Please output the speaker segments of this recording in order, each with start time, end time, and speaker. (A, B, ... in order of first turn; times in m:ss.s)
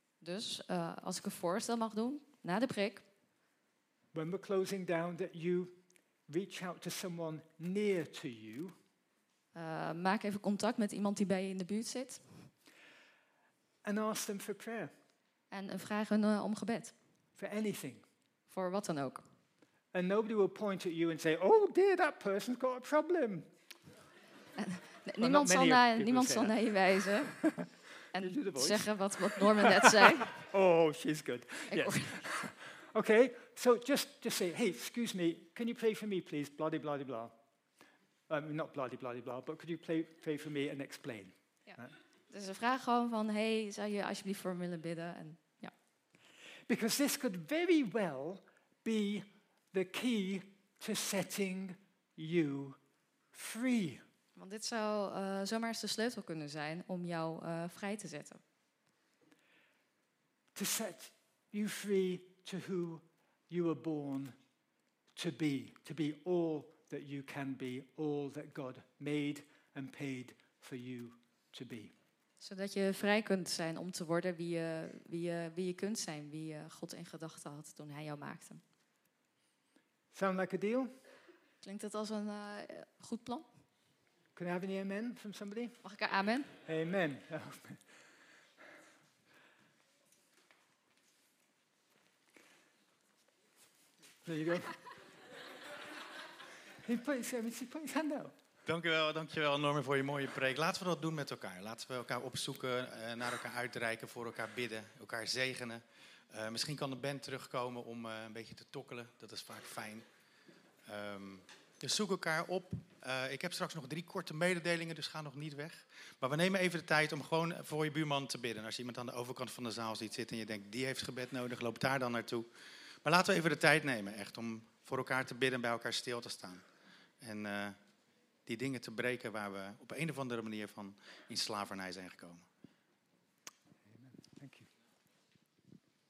0:00.2-0:03.0 A
0:04.1-0:08.8 B
0:09.5-0:12.5 A
0:13.8-0:14.9 B
0:15.5-0:16.9 A
0:17.4-0:18.0 B
0:18.5-0:19.2 A
0:19.9-0:23.5 B
0:24.6-0:27.4 A
0:25.2-0:26.6 B
0:27.1-0:37.3 B
0:28.1-0:30.3 A
0:31.7-0:32.3 A
0:38.3-0:41.9 B
0:41.7-0:45.7 A
0:46.7-0:52.8 B
0:53.3-0:54.0 B
0:54.4-0:58.4 A
1:00.5-1:04.4 B
1:05.1-1:11.9 B
1:12.4-1:18.6 A
1:20.1-1:20.9 B
1:21.6-1:23.4 A
1:24.3-1:25.8 B
1:25.8-1:26.6 A
1:26.6-1:27.8 B
1:34.2-1:34.8 B
1:36.8-1:38.3 B
1:38.6-1:50.0 C
1:50.8-2:02.5 C
2:03.0-2:06.6 C
2:07.2-2:07.8 C
2:08.4-2:12.4 C
2:13.9-2:14.7 B